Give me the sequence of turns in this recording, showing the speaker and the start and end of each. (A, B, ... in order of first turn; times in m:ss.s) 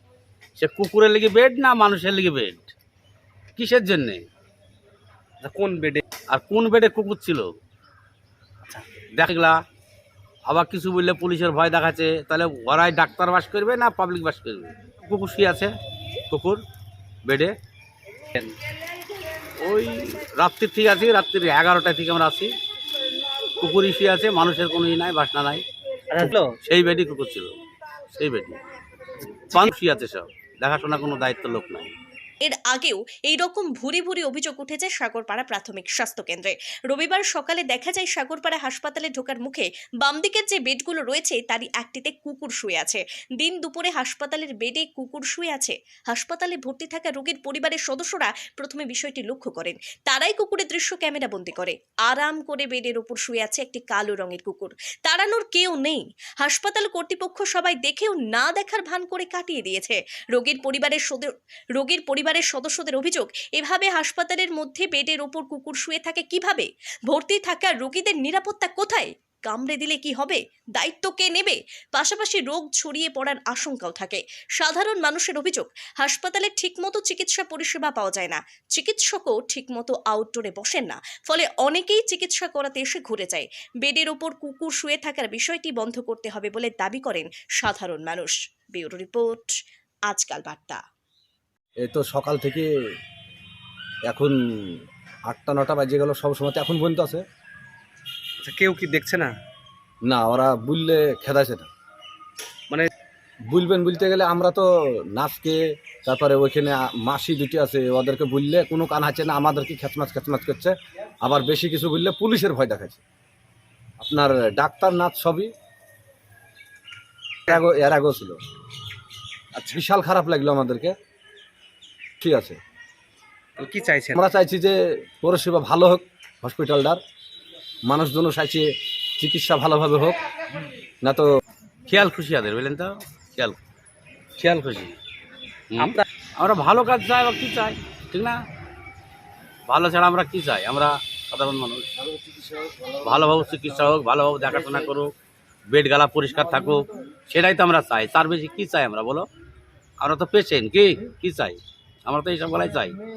0:00.6-0:02.7 A
0:03.6-0:04.2 A
0:05.4-0:06.0 B
0:06.3-0:07.5 A
0:09.0-0:09.6 A
0:10.5-0:15.7 A
0:16.3-0:16.6 A
0:17.3-0:17.5 A
0:19.6-0:22.5 A
0:23.6-0:25.6 A
0:26.1-0:26.5 B
0:26.2-0:27.5 A
0:28.1-0:28.6 A
0:29.4-0:31.9 A
0:32.4-1:29.5 C
1:30.1-1:30.8 C
1:31.8-1:32.7 D
1:34.1-1:37.2 D
1:38.4-1:39.3 B
1:40.1-1:41.7 D
1:43.5-1:53.0 D
1:54.0-1:55.5 D
1:57.5-1:58.4 D
1:59.6-2:00.9 D
2:02.2-2:02.6 D
2:03.6-2:04.2 B
2:04.1-2:07.0 D
2:07.9-2:10.2 D
2:11.0-2:11.3 D
2:11.9-2:13.6 A
2:14.4-2:15.0 A
2:15.7-2:18.4 A
2:19.7-2:21.9 A
2:23.0-2:25.1 A
2:25.7-2:29.3 A
2:30.0-2:33.0 A